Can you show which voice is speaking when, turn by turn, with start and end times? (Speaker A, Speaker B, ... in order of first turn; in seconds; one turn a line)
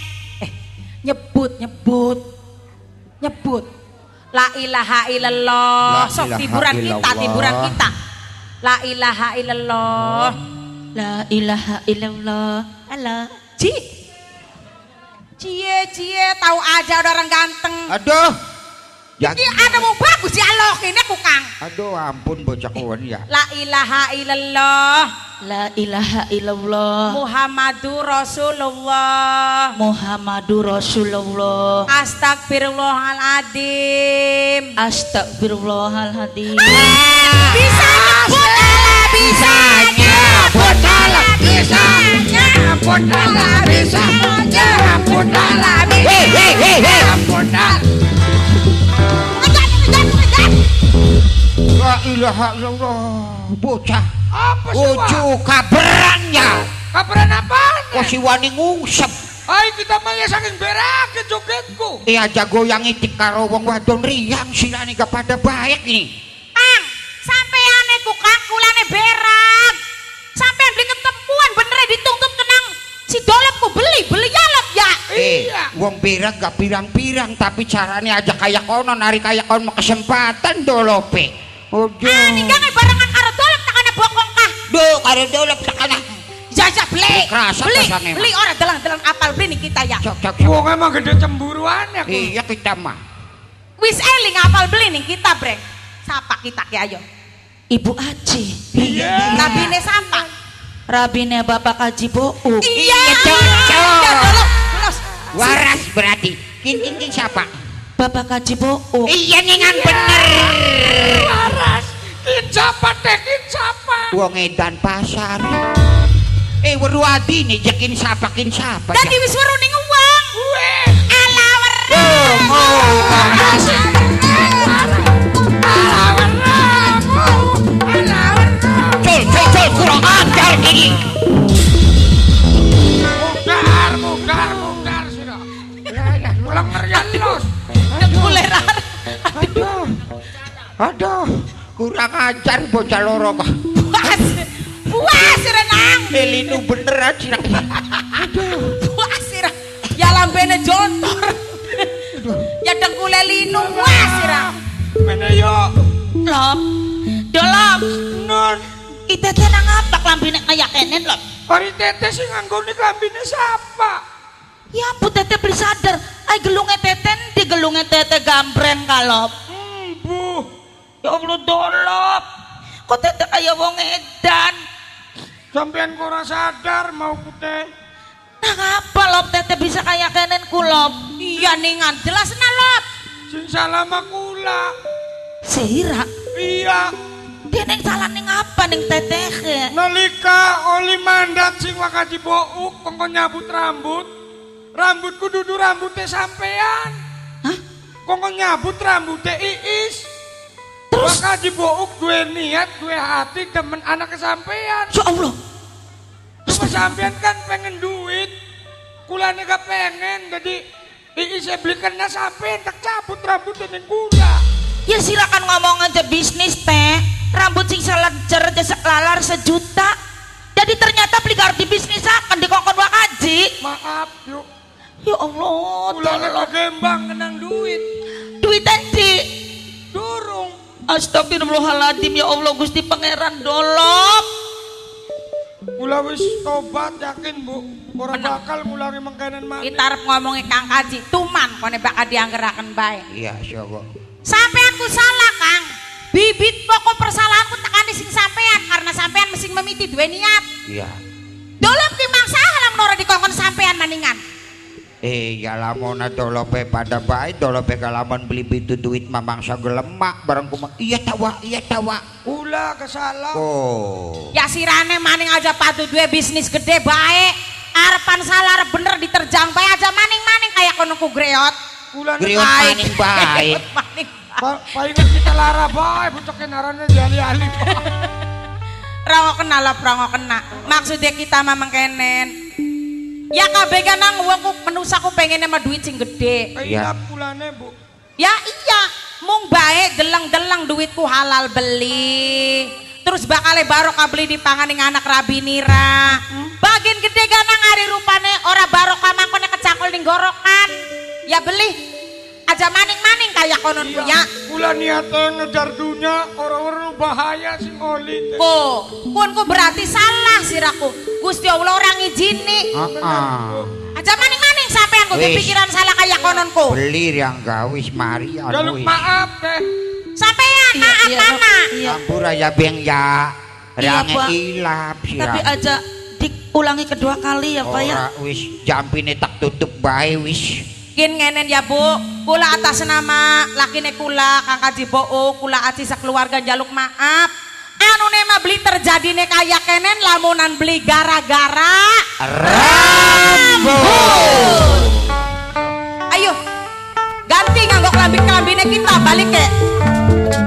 Speaker A: 1.0-2.2
Speaker A: 3.2-3.7
Speaker A: 4.3-7.9
Speaker B: 5.8-7.8
Speaker A: 8.6-10.4
Speaker C: 10.9-13.3
Speaker A: 15.4-17.9
Speaker B: 17.9-18.3
Speaker B: 19.2-19.9
Speaker A: 19.2-21.5
Speaker B: 21.6-23.3
Speaker A: 23.3-25.1
Speaker C: 25.4-27.2
Speaker A: 27.1-29.7
Speaker C: 29.8-31.9
Speaker A: 31.9-34.6
Speaker C: 34.8-36.8
Speaker A: 36.6-47.8
Speaker B: 36.7-38.1
Speaker D: 37.9-38.8
Speaker B: 39.1-41.4
Speaker D: 40.2-47.8
Speaker B: 46.0-47.1
Speaker A: 49.3-50.7
Speaker B: 51.7-54.1
Speaker D: 54.3-55.3
Speaker B: 54.7-56.6
Speaker D: 56.9-58.1
Speaker B: 57.9-59.1
Speaker D: 59.5-62.0
Speaker B: 62.1-66.1
Speaker A: 66.5-69.8
Speaker A: 70.3-75.0
Speaker D: 75.1-75.7
Speaker B: 75.1-82.7
Speaker A: 82.0-84.5
Speaker B: 84.7-86.1
Speaker A: 86.5-90.0
Speaker B: 87.1-88.3
Speaker B: 90.0-90.7
Speaker D: 90.4-92.3
Speaker B: 92.0-93.0
Speaker A: 93.8-97.0
Speaker C: 97.7-99.7
Speaker D: 98.8-99.4
Speaker A: 99.3-100.3
Speaker C: 100.9-102.7
Speaker A: 102.6-105.6
Speaker B: 102.7-104.5
Speaker B: 105.3-107.5
Speaker C: 108.0-109.1
Speaker B: 109.0-111.4
Speaker D: 109.7-114.1
Speaker B: 114.1-115.6
Speaker B: 116.6-119.2
Speaker A: 118.9-120.4
Speaker D: 120.3-121.0
Speaker A: 121.1-124.5
Speaker B: 121.9-123.8
Speaker D: 122.5-125.1
Speaker D: 125.6-130.1
Speaker B: 129.0-131.1
Speaker D: 133.1-135.4
Speaker B: 135.9-137.4
Speaker D: 136.5-137.5
Speaker B: 137.9-138.5
Speaker A: 138.0-139.7
Speaker B: 139.3-140.0
Speaker B: 140.8-144.3
Speaker A: 143.8-146.1
Speaker B: 146.1-148.8
Speaker A: 148.6-151.9
Speaker B: 152.1-152.5
Speaker A: 152.6-154.5
Speaker D: 153.5-154.5
Speaker D: 155.0-155.7
Speaker C: 156.2-156.6
Speaker C: 157.3-158.0
Speaker D: 158.0-158.7
Speaker C: 159.1-161.2
Speaker D: 161.5-164.0
Speaker C: 164.7-169.3
Speaker D: 169.5-170.4
Speaker C: 171.0-172.2
Speaker C: 172.9-174.6
Speaker D: 175.5-177.6
Speaker C: 178.4-181.4
Speaker A: 181.4-182.8
Speaker D: 183.3-184.7
Speaker C: 185.5-186.1
Speaker D: 186.3-186.9
Speaker C: 187.5-189.7
Speaker D: 189.7-194.1
Speaker D: 194.8-196.9
Speaker D: 198.1-200.0
Speaker C: 200.9-201.2
Speaker D: 201.0-204.9
Speaker C: 204.9-205.3
Speaker C: 206.5-206.9
Speaker D: 206.5-208.3
Speaker D: 209.1-210.6
Speaker D: 211.2-214.4
Speaker C: 214.9-219.9
Speaker C: 220.6-223.5
Speaker D: 223.6-224.4
Speaker C: 225.0-226.5
Speaker D: 225.9-227.8
Speaker C: 228.4-229.2
Speaker D: 229.9-230.6
Speaker C: 230.9-234.2
Speaker D: 235.8-239.8
Speaker A: 238.1-238.4
Speaker A: 239.6-243.0
Speaker B: 243.1-243.8
Speaker A: 244.3-250.4
Speaker B: 250.7-250.9
Speaker A: 251.6-254.2
Speaker B: 255.0-262.0
Speaker D: 262.2-263.4
Speaker B: 263.3-264.3
Speaker A: 264.3-271.5
Speaker D: 271.9-272.4
Speaker B: 272.2-273.6
Speaker A: 272.3-274.4
Speaker D: 274.4-277.9
Speaker A: 274.9-275.3
Speaker A: 277.6-277.9
Speaker A: 279.1-282.3
Speaker A: 283.3-286.5
Speaker D: 286.6-287.7
Speaker B: 286.6-286.9
Speaker A: 288.2-300.7
Speaker A: 301.3-301.8
Speaker A: 302.5-304.3
Speaker D: 303.8-308.4
Speaker A: 308.4-312.7
Speaker B: 312.7-313.7
Speaker D: 313.0-313.4
Speaker A: 314.0-316.8
Speaker B: 315.1-315.5
Speaker B: 316.7-319.1
Speaker D: 318.5-319.6
Speaker A: 320.2-321.7
Speaker C: 320.7-322.0
Speaker B: 321.8-325.5
Speaker C: 323.8-324.3
Speaker C: 325.2-328.0
Speaker B: 327.6-330.6
Speaker A: 330.9-337.3
Speaker A: 337.8-344.9
Speaker B: 342.2-345.2
Speaker A: 346.1-346.4
Speaker A: 347.3-349.5